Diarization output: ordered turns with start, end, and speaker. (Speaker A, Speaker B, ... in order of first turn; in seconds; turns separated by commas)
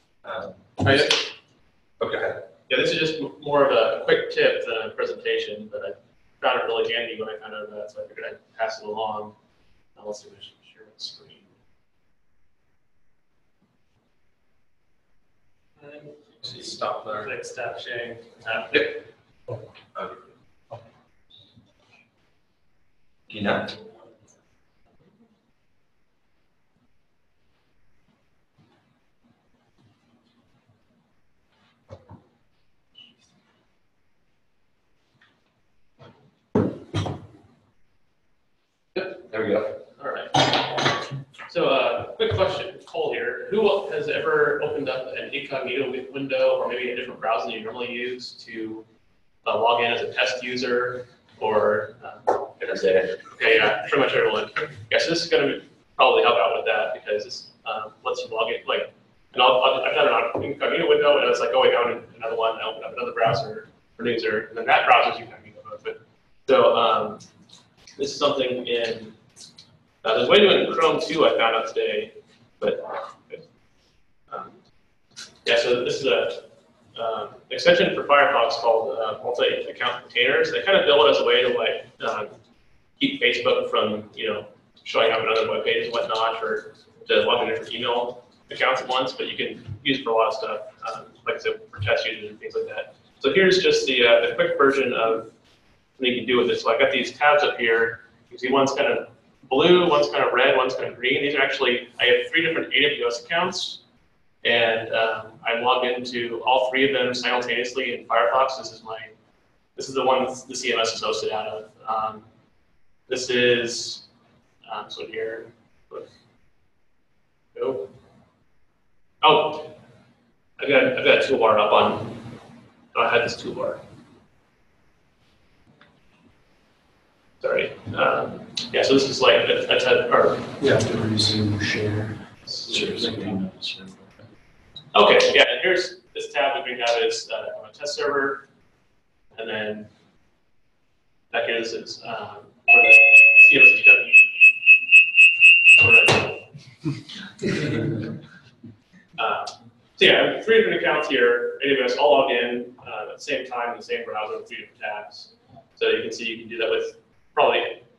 Speaker A: 0.2-1.1, Speaker B: 0.8-1.2, Speaker A: 2.0-2.4, Speaker B: 2.7-9.3, Speaker B: 9.9-11.5, Speaker B: 15.8-19.0, Speaker A: 19.9-20.3, Speaker A: 23.3-23.8, Speaker A: 39.2-39.7, Speaker B: 40.0-40.9, Speaker B: 41.5-48.8, Speaker B: 49.4-67.2, Speaker B: 68.0-69.2, Speaker B: 70.0-73.4, Speaker B: 74.3-74.5, Speaker B: 75.4-82.3, Speaker B: 83.0-95.3, Speaker B: 96.0-103.8, Speaker B: 104.4-109.1, Speaker B: 109.8-112.2, Speaker B: 113.1-114.0, Speaker B: 114.7-116.1, Speaker B: 117.5-117.9, Speaker B: 119.2-119.7, Speaker B: 120.6-122.2, Speaker B: 122.9-123.8, Speaker B: 127.4-130.5, Speaker C: 130.6-132.2, Speaker B: 132.5-132.8, Speaker A: 132.7-133.9, Speaker C: 132.7-133.4, Speaker B: 134.9-138.4, Speaker B: 139.3-139.9, Speaker B: 141.3-144.3, Speaker B: 145.8-146.5, Speaker B: 149.2-157.8